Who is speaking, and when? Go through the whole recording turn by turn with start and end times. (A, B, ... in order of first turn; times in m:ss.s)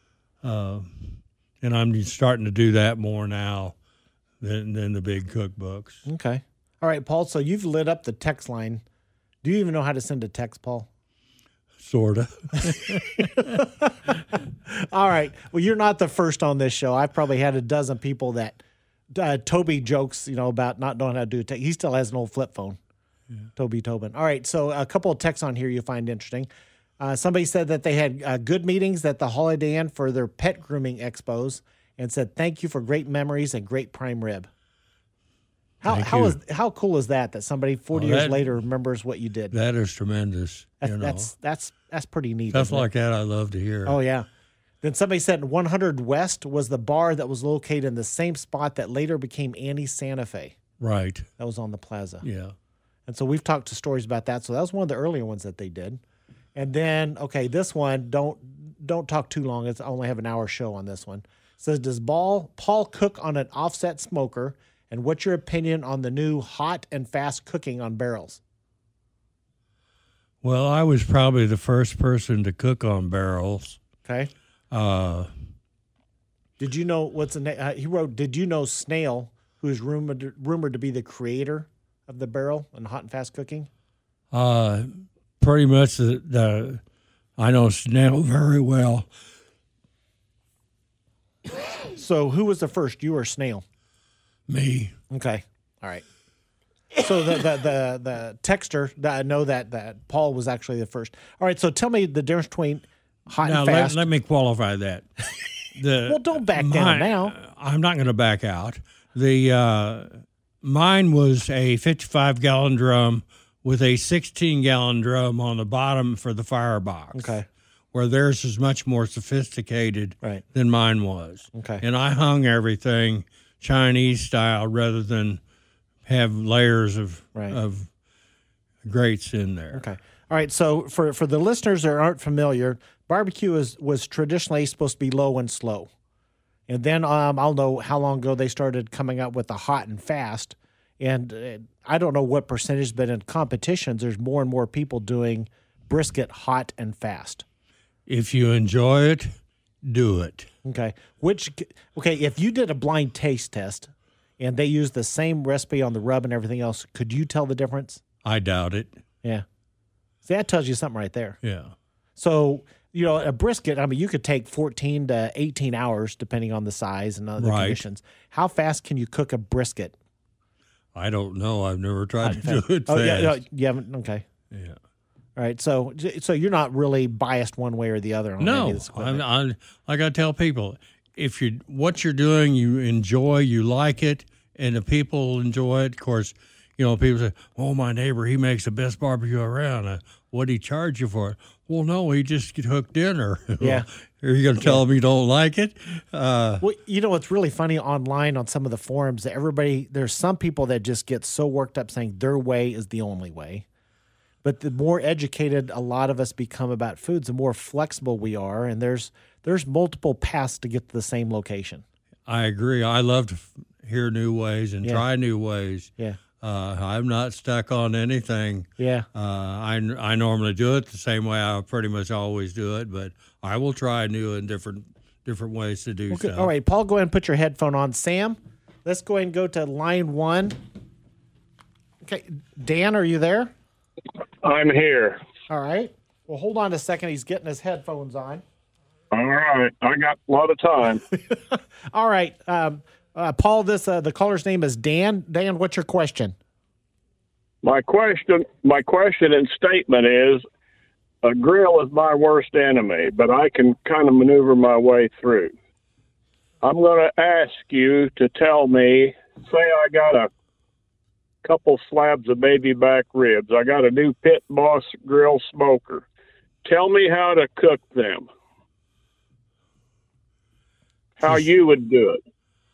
0:00.4-0:03.7 A
0:04.4-0:06.0 A
0:06.0-0:08.8 B
0:09.4-0:10.9 B
0:11.8-0:13.6 A
0:12.6-0:14.0 B
0:14.6-0:18.6 B
0:19.1-0:22.8 B
0:23.6-0:26.5 B
0:27.0-0:34.5 B
0:35.8-0:36.4 A
0:35.8-0:39.5 B
0:37.9-0:38.6 A
0:39.5-0:41.3 A
0:40.8-0:42.9 B
0:42.5-0:44.0 A
0:43.8-0:44.3 B
0:44.8-0:50.6 B
0:50.8-0:51.3 A
0:51.4-0:52.2 B
0:52.2-0:52.6 A
0:53.1-0:56.0 B
0:56.5-1:08.4 B
1:10.4-1:13.8 A
1:14.0-1:14.3 B
1:14.7-1:15.5 A
1:16.6-1:23.7 B
1:24.3-1:26.8 A
1:27.4-1:29.1 A
1:31.8-1:33.6 B
1:34.5-1:35.0 A
1:35.1-1:36.0 B
1:37.0-1:44.0 B
1:43.4-1:57.4 A
1:46.0-1:47.3 B
1:57.1-1:57.4 B
1:57.9-2:05.4 A
2:01.5-2:01.8 B
2:06.0-2:07.9 A
2:08.8-2:09.8 A
2:09.7-2:15.9 B
2:16.7-2:27.4 B
2:28.0-2:30.5 A
2:30.6-2:38.0 B
2:38.2-2:39.0 A
2:40.2-2:41.4 B
2:41.4-2:41.8 A
2:42.2-2:49.9 B
2:47.4-2:47.8 A
2:50.9-2:53.4 A
2:52.2-2:54.2 B
2:54.5-2:54.8 A
2:55.4-2:59.2 B
2:58.4-3:16.6 A
3:13.6-3:13.8 B
3:16.6-3:23.6 B
3:24.4-3:31.8 B
3:32.2-3:46.5 A
3:38.8-3:39.0 B
3:46.1-3:50.6 B
3:52.0-3:53.5 B
3:54.4-3:55.2 C
3:55.5-3:58.4 B
3:59.1-4:01.0 C
4:01.1-4:06.3 B
4:07.6-4:10.4 C
4:11.2-4:15.5 C
4:16.6-4:20.3 C
4:21.4-4:26.0 C
4:26.6-4:28.2 C
4:31.2-4:32.2 C